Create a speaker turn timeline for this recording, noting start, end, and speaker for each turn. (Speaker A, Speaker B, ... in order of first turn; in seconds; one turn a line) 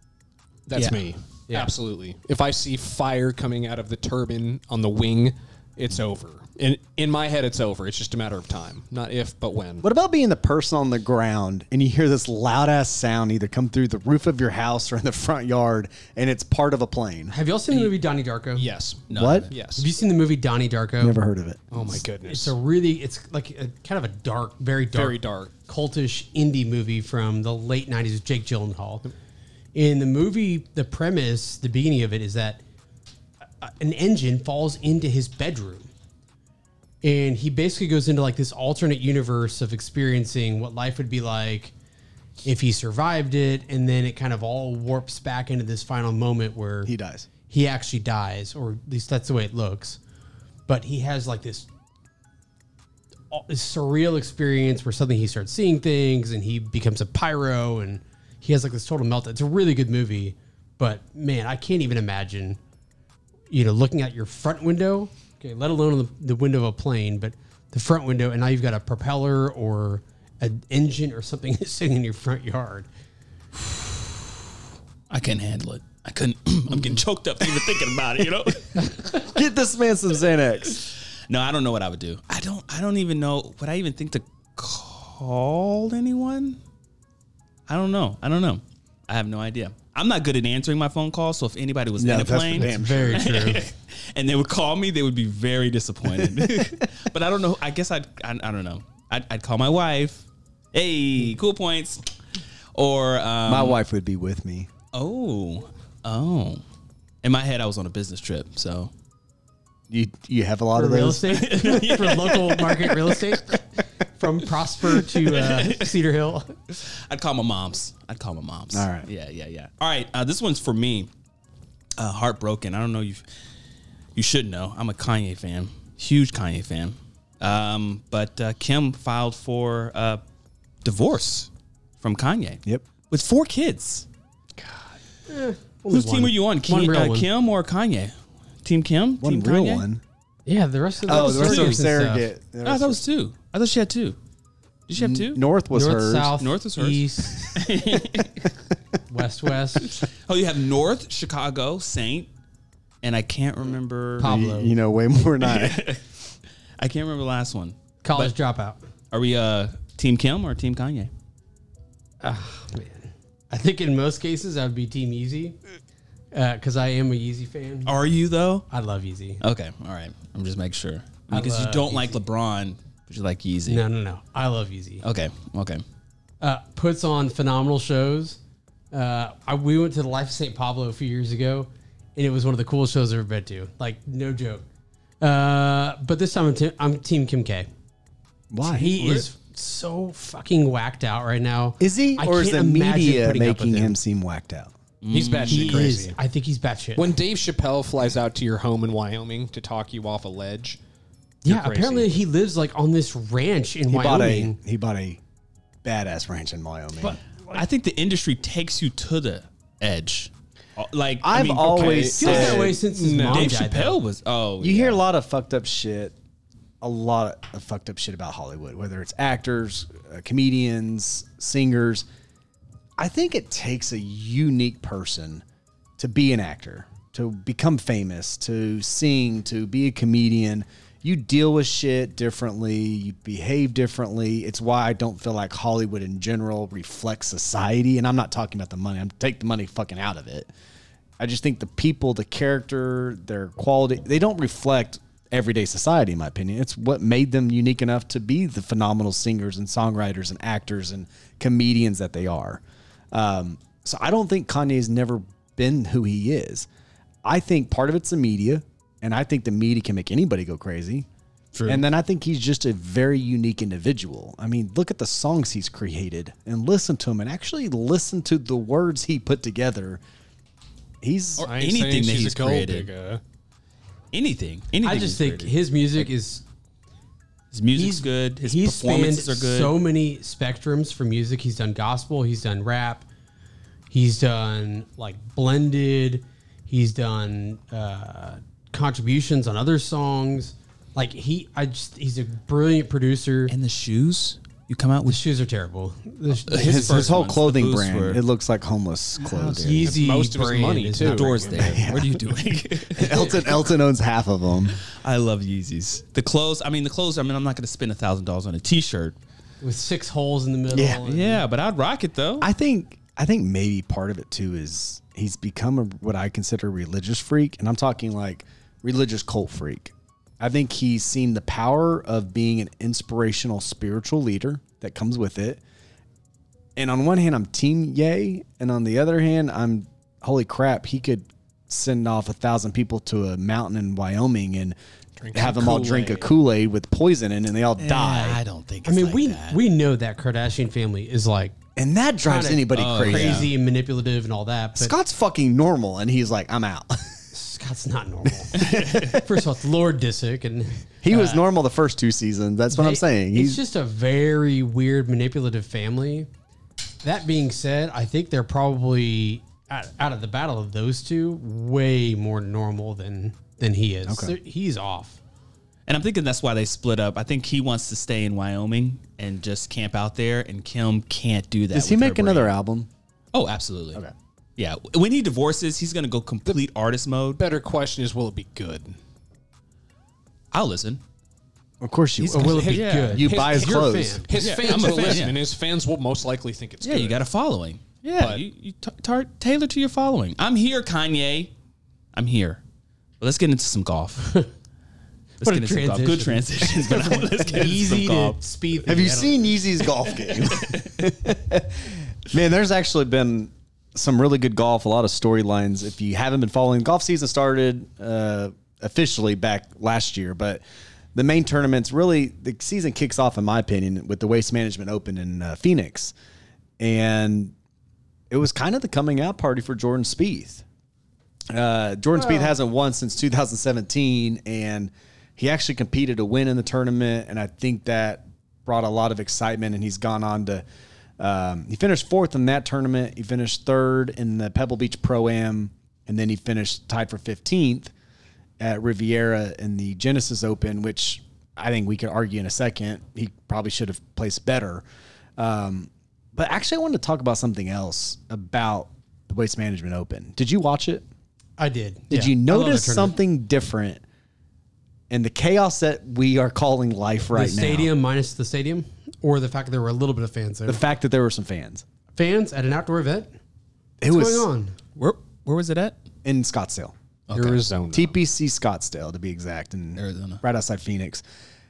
Speaker A: 0.7-9.8
Speaker B: 0.8-1.0
Speaker C: 9.8-17.4
Speaker D: 17.3-18.7
Speaker A: 18.6-19.9
Speaker B: 19.1-19.5
Speaker C: 19.1-19.5
Speaker D: 19.8-21.2
Speaker C: 21.0-21.9
Speaker A: 21.7-22.6
Speaker D: 22.3-29.1
Speaker A: 24.9-25.5
Speaker D: 29.7-32.6
Speaker D: 33.6-35.9
Speaker D: 37.0-41.7
Speaker D: 42.4-46.9
Speaker C: 46.9-47.3
Speaker D: 47.5-50.0
Speaker D: 50.7-51.7
Speaker D: 53.3-62.6
Speaker D: 63.5-72.9
Speaker B: 75.1-79.3
Speaker C: 79.2-80.8
Speaker B: 80.8-86.6
Speaker B: 87.7-102.1
Speaker C: 92.0-93.3
Speaker D: 92.6-93.6
Speaker C: 96.2-96.9
Speaker B: 102.8-103.8
Speaker C: 103.5-104.7
Speaker B: 104.9-106.6
Speaker B: 107.2-108.9
Speaker C: 109.9-111.5
Speaker D: 110.8-113.6
Speaker B: 111.4-113.2
Speaker D: 114.2-116.5
Speaker B: 115.3-115.9
Speaker B: 116.7-121.1
Speaker C: 118.7-119.1
Speaker B: 122.0-123.2
Speaker B: 124.2-130.2
Speaker B: 130.8-131.5
Speaker B: 132.0-134.1
Speaker C: 134.6-134.9
Speaker D: 135.3-137.3
Speaker B: 135.9-139.8
Speaker C: 139.2-140.0
Speaker D: 140.5-142.3
Speaker C: 141.1-143.0
Speaker B: 141.1-141.8
Speaker B: 142.6-144.2
Speaker B: 144.9-145.4
Speaker C: 145.0-146.4
Speaker D: 145.7-147.6
Speaker B: 146.4-148.5
Speaker D: 149.1-149.9
Speaker B: 149.8-152.3
Speaker B: 153.0-154.3
Speaker D: 154.2-154.8
Speaker C: 154.2-155.9
Speaker B: 155.4-156.0
Speaker B: 156.8-158.3
Speaker D: 158.0-158.8
Speaker B: 159.1-161.1
Speaker D: 162.2-165.6
Speaker D: 166.3-168.0
Speaker B: 167.9-168.7
Speaker D: 168.7-169.4
Speaker B: 169.4-173.8
Speaker D: 171.3-172.2
Speaker D: 173.7-175.0
Speaker B: 175.0-175.8
Speaker D: 176.4-178.4
Speaker D: 178.9-184.7
Speaker D: 185.2-187.7
Speaker C: 188.5-188.9
Speaker D: 188.6-194.0
Speaker B: 189.0-189.3
Speaker C: 191.8-194.7
Speaker B: 195.0-195.9
Speaker A: 195.1-196.2
Speaker D: 195.5-197.1
Speaker A: 197.0-200.8
Speaker A: 201.4-202.2
Speaker D: 201.4-204.6
Speaker C: 203.9-205.2
Speaker C: 205.8-207.2
Speaker D: 207.0-207.6
Speaker B: 207.5-212.6
Speaker C: 211.2-212.8
Speaker A: 211.7-213.6
Speaker D: 212.2-214.0
Speaker B: 213.3-215.0
Speaker C: 214.6-216.2
Speaker C: 216.8-222.1
Speaker C: 223.0-225.4
Speaker C: 226.0-240.5
Speaker C: 241.2-256.7
Speaker C: 257.2-261.1
Speaker C: 261.7-270.0
Speaker C: 271.0-271.5
Speaker B: 271.4-272.9
Speaker A: 271.4-273.2
Speaker B: 274.1-276.0
Speaker D: 274.8-276.4
Speaker B: 277.5-279.8
Speaker D: 277.7-283.1
Speaker D: 283.9-293.5
Speaker B: 293.5-295.2
Speaker D: 295.1-297.1
Speaker B: 296.5-298.2
Speaker C: 296.5-299.9
Speaker B: 299.2-300.0
Speaker D: 299.6-301.7
Speaker A: 299.9-301.8
Speaker B: 301.0-303.6
Speaker C: 301.6-302.2
Speaker C: 302.9-304.8
Speaker B: 304.9-309.2
Speaker D: 309.6-311.4
Speaker C: 310.7-311.0
Speaker B: 311.0-312.5
Speaker C: 312.4-325.6
Speaker C: 326.8-334.8
Speaker A: 335.2-336.3
Speaker C: 335.3-338.4
Speaker B: 337.8-339.6
Speaker D: 338.9-341.6
Speaker C: 341.8-343.5
Speaker D: 342.2-344.9
Speaker B: 342.7-343.5
Speaker C: 344.8-347.2
Speaker D: 347.3-351.4
Speaker C: 348.5-349.2
Speaker B: 348.6-349.1
Speaker C: 351.0-353.6
Speaker D: 352.7-356.3
Speaker D: 357.0-365.2
Speaker C: 364.1-364.4
Speaker B: 365.9-372.5
Speaker C: 371.7-372.9
Speaker B: 373.3-374.0
Speaker B: 374.6-377.4
Speaker A: 377.4-379.0
Speaker B: 380.5-381.0
Speaker C: 381.8-384.3
Speaker B: 382.2-383.3
Speaker D: 382.3-385.1
Speaker A: 382.7-387.2
Speaker B: 384.3-385.4
Speaker B: 386.8-391.5
Speaker B: 392.1-392.6
Speaker B: 393.2-394.4
Speaker B: 395.4-398.4
Speaker D: 395.4-399.6
Speaker C: 398.9-410.6
Speaker B: 400.1-401.0
Speaker C: 411.1-416.1
Speaker C: 416.8-417.5
Speaker C: 418.3-420.6
Speaker C: 421.5-430.6
Speaker D: 422.2-422.5
Speaker C: 431.2-437.9
Speaker C: 438.6-444.8
Speaker C: 445.4-451.0
Speaker D: 451.6-453.2
Speaker C: 452.1-454.0
Speaker C: 455.1-457.9
Speaker D: 457.3-460.8
Speaker C: 460.7-461.8
Speaker D: 462.1-463.3
Speaker C: 464.0-464.5
Speaker D: 464.1-464.8
Speaker B: 465.0-466.0
Speaker C: 466.2-466.9
Speaker B: 467.3-467.6
Speaker A: 467.3-468.2
Speaker C: 467.9-471.2
Speaker B: 470.0-470.4